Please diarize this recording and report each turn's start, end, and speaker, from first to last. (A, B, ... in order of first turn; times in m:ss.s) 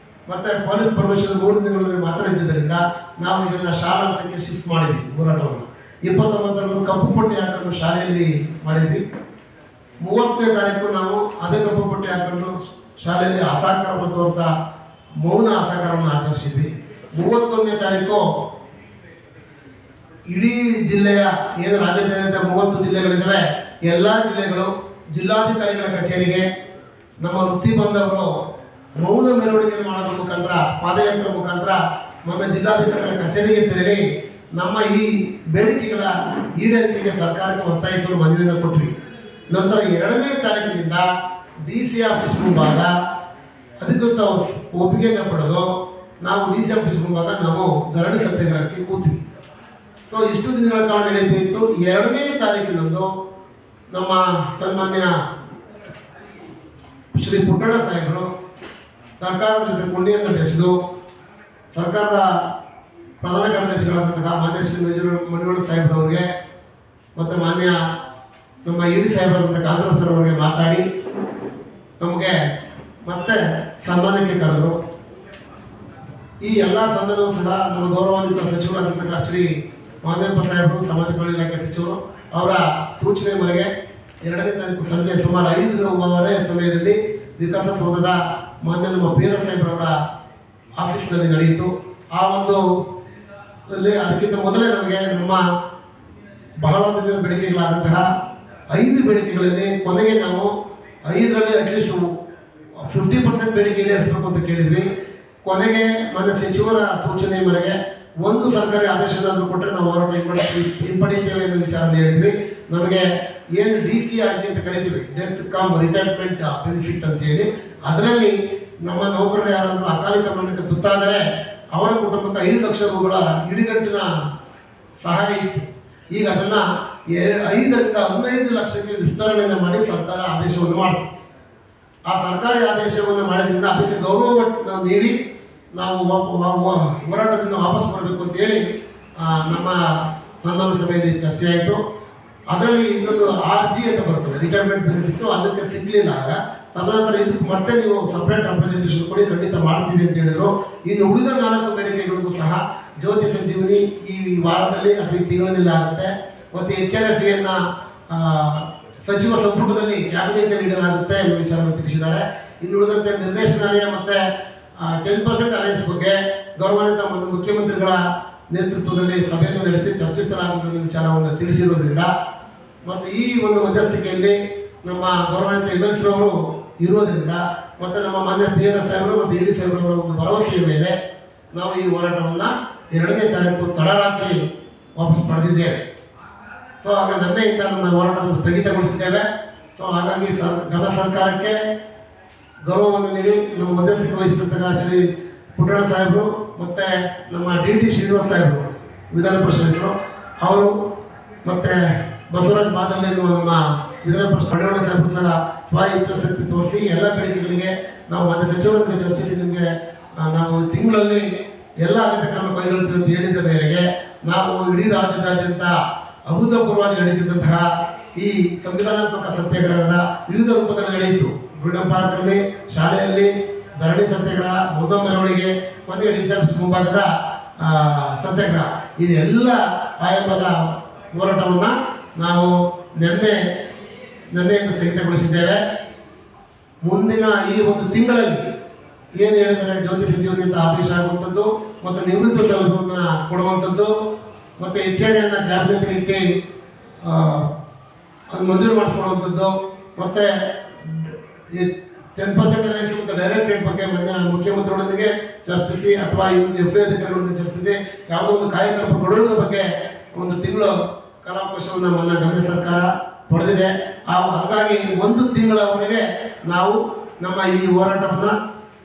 0:00.3-0:09.0 A
0:10.0-0:14.5 A
0:15.2-0:18.2 A
0:20.3-0:26.4 A
0:27.2-0:28.3 A
0:29.0-0:34.0 A
0:34.6-0:38.9 A
0:39.5-0:41.1 A
0:41.6-0:42.9 A
0:43.8-0:45.7 A
0:46.2-0:49.2 A
0:50.1-0:53.1 A
0:53.9-0:55.1 A
0:57.1-0:58.3 A
0:59.2-1:00.8 A
1:01.7-1:02.3 A
1:03.2-1:06.2 A
1:07.2-1:07.8 A
1:08.6-1:10.8 A
1:12.0-1:12.4 A
1:13.0-1:14.8 A
1:16.4-1:19.5 A
1:20.0-1:23.7 A
1:24.2-1:29.9 A
1:30.8-1:32.6 A
1:33.7-1:35.4 A
1:36.6-1:38.0 A
1:38.7-1:40.5 A
1:41.1-1:42.1 A
1:42.8-1:44.9 A
1:45.4-1:53.0 A
1:53.6-2:01.2 A
2:01.7-2:04.1 A
2:05.0-2:11.1 A
2:12.1-2:15.2 A
2:15.8-2:18.6 A
2:19.2-2:19.8 A
2:20.4-2:21.8 A
2:22.5-2:37.6 A
2:38.1-2:44.2 A
2:44.8-2:52.1 A
2:52.8-3:01.0 A
3:01.5-3:04.4 A
3:05.0-3:05.8 A
3:06.8-3:09.2 A
3:09.8-3:11.6 A
3:12.7-3:15.0 A
3:15.6-3:20.8 A
3:21.4-3:29.7 A
3:30.2-3:31.2 A
3:31.8-3:35.8 A
3:36.3-3:50.6 A
3:51.1-3:53.4 A
3:54.3-3:55.6 A
3:56.8-3:58.4 A
3:59.2-4:03.9 A
4:04.6-4:06.2 A
4:07.0-4:07.5 A
4:08.3-4:28.4 A